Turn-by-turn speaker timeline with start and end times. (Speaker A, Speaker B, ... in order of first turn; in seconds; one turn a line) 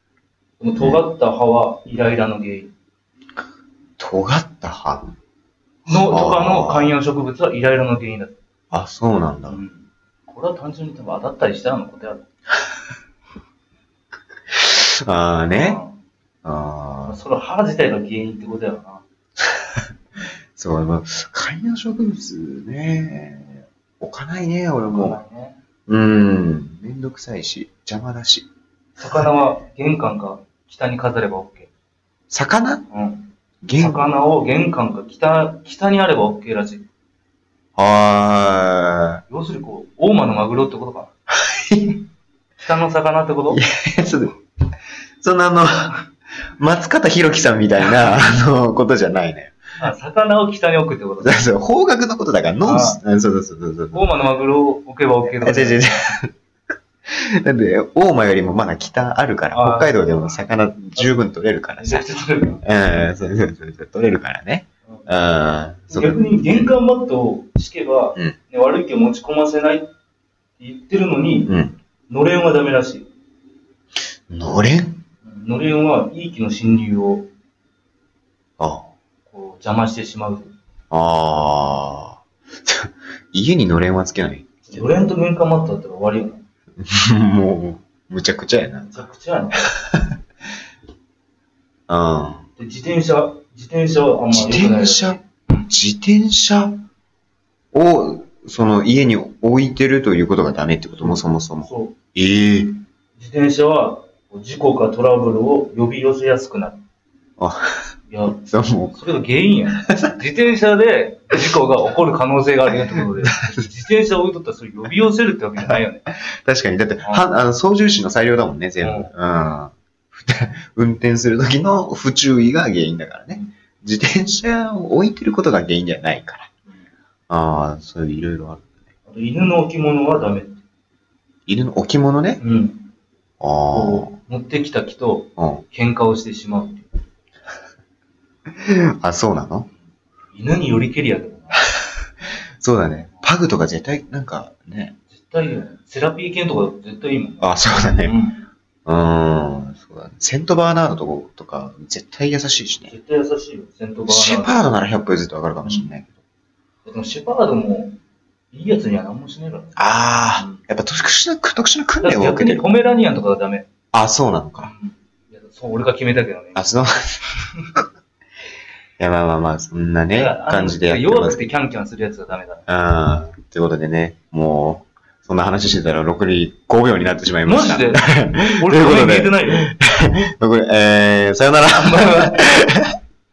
Speaker A: 0.6-2.7
Speaker B: 0.8-1.0
Speaker B: 4.0-5.1
Speaker A: 5.9-8.4
Speaker B: 5.9-7.0
Speaker B: 8.7-9.6
Speaker A: 9.5-12.2
Speaker B: 14.5-15.8
Speaker A: 15.5-16.0
Speaker B: 16.4-17.2
Speaker A: 17.1-19.0
Speaker B: 20.6-25.2
Speaker A: 24.9-25.6
Speaker B: 25.9-28.5
Speaker A: 29.0-31.7
Speaker B: 32.3-32.9
Speaker A: 32.9-36.9
Speaker B: 33.6-34.1
Speaker B: 37.8-39.2
Speaker A: 39.3-41.1
Speaker B: 41.4-42.1
Speaker A: 42.6-43.6
Speaker B: 43.5-44.4
Speaker B: 45.2-45.9
Speaker B: 46.6-49.6
Speaker A: 49.8-51.4
Speaker B: 51.2-54.0
Speaker A: 52.6-53.0
Speaker A: 53.9-55.9
Speaker B: 55.4-56.3
Speaker B: 57.1-62.1
Speaker A: 59.5-62.6
Speaker B: 62.6-66.7
Speaker A: 65.9-69.9
Speaker A: 70.6-71.5
Speaker B: 71.5-71.8
Speaker A: 72.1-73.1
Speaker B: 74.3-75.0
Speaker A: 75.2-77.3
Speaker B: 78.6-78.9
Speaker A: 79.3-80.5
Speaker B: 80.9-84.9
Speaker A: 84.7-86.4
Speaker B: 86.8-89.0
Speaker A: 88.9-89.7
Speaker B: 91.9-92.5
Speaker A: 92.6-95.7
Speaker B: 94.3-96.8
Speaker B: 97.7-102.8
Speaker A: 101.0-102.0
Speaker A: 103.2-106.8
Speaker A: 108.1-116.1
Speaker B: 108.4-109.0
Speaker B: 113.0-113.3
Speaker B: 115.6-126.5
Speaker A: 118.8-119.1
Speaker B: 127.3-128.7
Speaker A: 129.1-130.6
Speaker B: 131.5-132.4
Speaker A: 132.4-132.9
Speaker B: 133.4-134.2
Speaker A: 133.7-136.9
Speaker B: 135.4-135.6
Speaker B: 138.6-139.7
Speaker A: 140.3-141.7
Speaker B: 142.6-145.0
Speaker A: 145.1-147.5
Speaker B: 147.4-148.2
Speaker A: 148.0-148.4
Speaker B: 148.9-152.9
Speaker A: 152.9-154.7
Speaker B: 154.1-156.1
Speaker A: 156.8-158.0
Speaker A: 158.5-160.6
Speaker B: 159.8-162.7
Speaker A: 162.0-163.7
Speaker B: 163.9-164.7
Speaker A: 164.6-166.7
Speaker B: 166.6-167.2
Speaker B: 169.0-171.4
Speaker A: 170.1-172.7
Speaker B: 172.7-182.9
Speaker A: 177.4-179.7
Speaker A: 181.7-182.4